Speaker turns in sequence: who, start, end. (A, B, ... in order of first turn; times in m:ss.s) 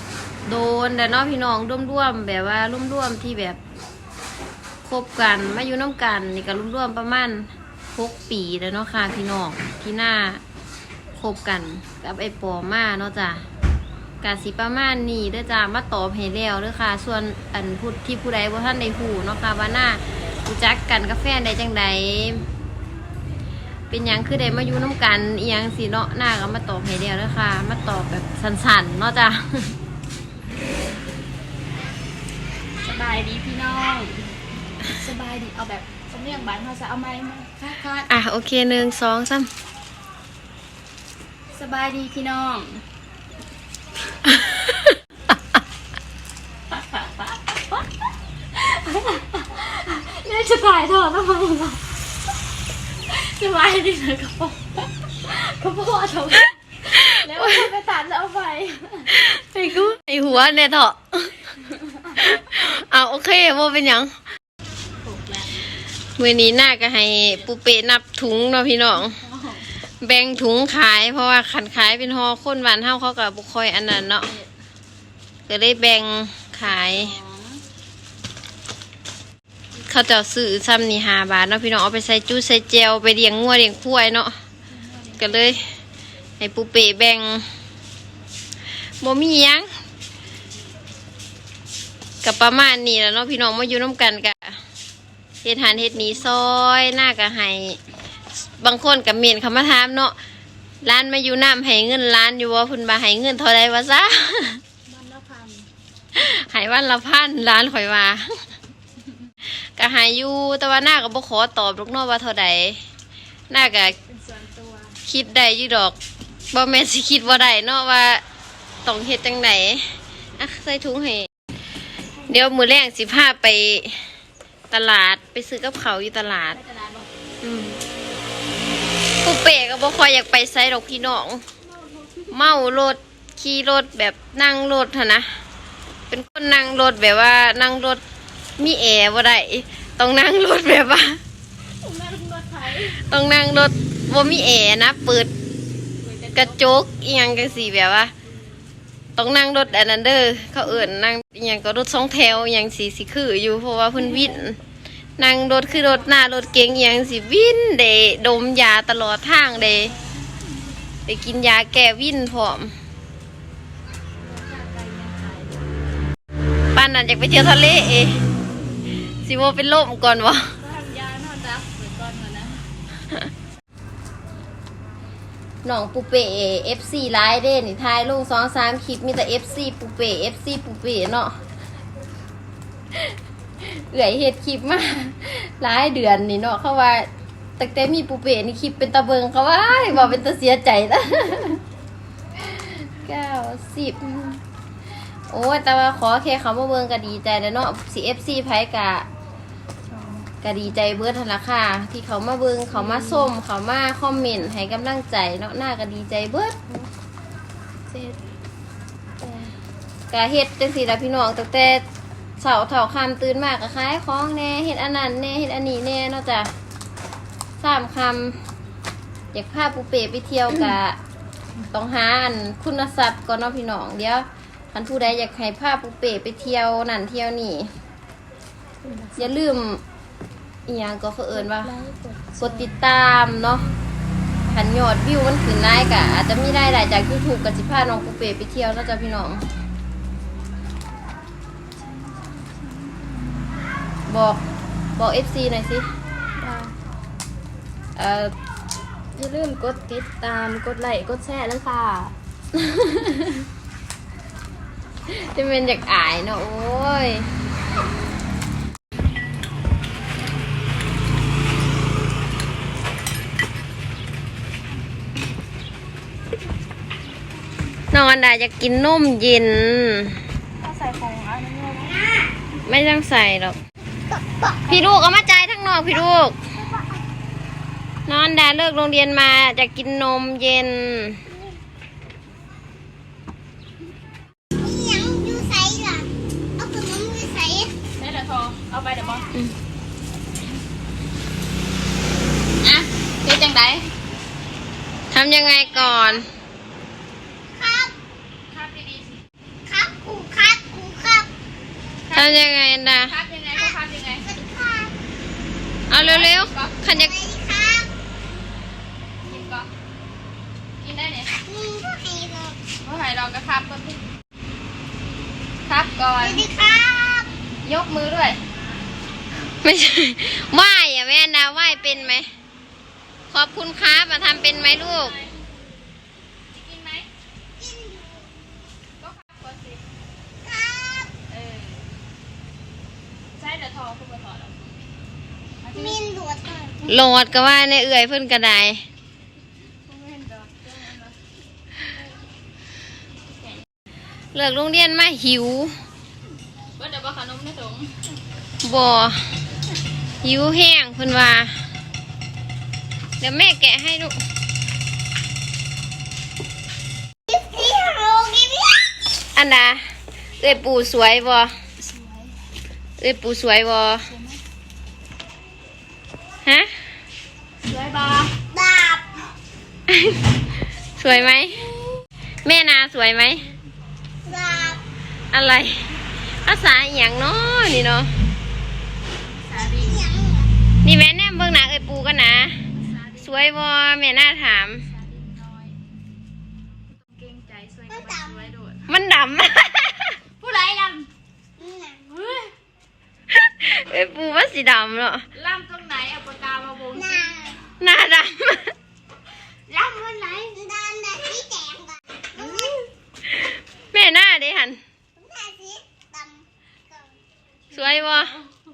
0:00.4-0:03.6 A
0:04.8-0:10.4 A
0:11.1-0:13.4 A
0:14.2-0:22.4 A
0:23.9-0:29.8 A
0:32.8-0:34.3 B
0:34.8-0:38.1 B
0:38.1-0:39.5 A
0:41.5-0:42.8 B
0:44.2-0:45.0 A
0:46.8-0:47.1 B
0:48.5-0:51.8 B
0:53.1-0:59.2 B
0:56.9-0:57.7 A
0:59.1-1:01.4 A
1:02.1-1:04.1 A
1:05.0-1:05.6 B
1:06.2-1:09.2 A
1:08.9-1:09.7 B
1:10.0-1:14.3 A
1:15.5-1:17.2 A
1:16.6-1:17.6 B
1:19.9-1:24.3 A
1:24.7-1:25.3 B
1:25.2-1:25.6 A
1:26.4-1:27.5 A
1:29.0-1:29.7 A
1:32.2-1:34.6 A
1:35.4-1:37.8 A
1:38.6-1:40.1 A
1:40.8-1:44.6 A
1:44.8-1:45.7 B
1:46.1-1:48.2 A
1:49.8-1:52.8 A
1:53.5-1:54.0 A
1:54.0-1:55.0 B
1:55.0-1:56.0 A
1:56.5-1:58.2 A
1:58.8-2:01.3 A
2:02.3-2:04.1 A
2:04.7-2:06.6 A
2:06.5-2:07.1 B
2:07.4-2:07.8 A
2:09.2-2:11.4 A
2:11.9-2:12.3 B
2:12.3-2:15.3 A
2:16.1-2:18.0 A
2:18.6-2:21.2 A
2:21.8-2:23.0 B
2:22.9-2:25.3 A
2:26.0-2:26.6 B
2:26.3-2:28.1 A
2:29.2-2:34.6 A
2:35.2-2:40.0 A
2:41.1-2:42.7 A
2:44.2-2:45.7 B
2:46.7-2:48.2 A
2:49.2-2:50.5 A
2:50.6-2:52.6 B
2:55.6-3:01.4 A
3:02.9-3:07.1 A
3:07.6-3:11.6 A
3:12.4-3:14.4 A
3:15.3-3:19.1 A
3:19.9-3:20.3 B
3:20.4-3:26.5 A
3:22.7-3:23.3 B
3:27.9-3:28.2 B
3:29.2-3:29.5 B
3:30.1-3:31.8 A
3:32.4-3:36.5 A
3:37.6-3:38.4 A
3:39.3-3:41.0 A
3:41.7-3:47.7 A
3:48.8-3:49.3 B
3:49.2-3:49.8 A
3:50.7-3:51.7 A
3:51.3-3:52.7 B
3:52.4-3:53.6 A
3:54.5-3:59.4 A
4:01.8-4:03.0 B
4:04.1-4:04.4 A
4:05.0-4:05.9 A
4:06.4-4:06.7 B
4:08.0-4:08.3 A
4:09.1-4:12.1 B
4:12.6-4:13.4 A
4:15.1-4:17.3 A
4:27.9-4:30.2 A
4:30.6-4:32.3 B
4:32.6-4:33.6 A
4:34.7-4:36.4 A
4:38.1-4:41.2 A
4:44.6-4:47.7 C
4:48.0-4:49.3 B
4:52.6-4:53.9 B
4:55.1-4:56.2 A
4:55.5-4:56.2 B
4:57.5-4:58.0 C
4:58.5-4:59.2 B
4:59.6-5:01.3 C
5:02.1-5:02.4 B
5:02.1-5:03.1 A
5:03.0-5:04.3 B
5:04.2-5:05.0 C
5:05.9-5:07.2 A
5:05.9-5:06.8 B
5:06.8-5:07.9 C
5:09.2-5:09.7 B
5:10.8-5:11.4 B
5:11.4-5:12.6 C
5:12.8-5:14.0 B
5:15.6-5:16.5 B
5:16.2-5:17.3 C
5:17.6-5:18.4 B
5:19.6-5:22.3 A
5:23.3-5:25.2 A
5:24.8-5:25.3 B
5:26.5-5:27.1 B
5:27.6-5:28.3 C
5:29.0-5:29.8 B
5:30.4-5:31.1 C
5:31.3-5:31.9 B
5:33.4-5:34.7 B
5:35.6-5:36.1 B
5:35.7-5:36.8 C
5:36.8-5:38.8 A
5:39.9-5:41.2 B
5:43.3-5:43.6 B
5:44.3-5:45.7 A
5:46.8-5:48.0 B
5:48.6-5:49.2 A
5:50.2-5:51.5 A
5:53.2-5:54.1 A
5:57.3-5:58.9 C
5:59.3-5:59.8 A
6:00.4-6:01.5 A
6:01.8-6:02.3 B
6:03.0-6:04.1 A
6:04.1-6:04.4 B
6:06.4-6:06.7 A
6:07.6-6:08.4 B
6:08.5-6:09.1 C
6:09.9-6:10.2 A
6:11.0-6:11.7 A
6:11.1-6:11.5 B
6:12.4-6:13.5 A
6:14.2-6:14.8 B
6:14.3-6:14.8 C
6:15.3-6:18.1 A
6:19.4-6:20.1 B
6:19.6-6:20.5 C
6:20.8-6:22.6 A
6:22.8-6:23.4 B
6:23.2-6:24.8 A
6:24.8-6:25.8 B
6:27.0-6:28.9 B
6:27.9-6:28.4 C
6:28.9-6:30.2 A
6:30.4-6:31.1 B
6:31.6-6:32.1 C
6:32.1-6:32.5 B
6:33.3-6:35.2 A
6:35.3-6:37.3 B
6:36.9-6:37.6 C
6:37.8-6:38.7 A
6:39.7-6:40.6 B
6:40.5-6:42.8 C
6:42.4-6:42.8 B
6:43.3-6:44.8 A
6:45.2-6:47.1 C
6:47.7-6:48.4 A
6:47.8-6:48.4 B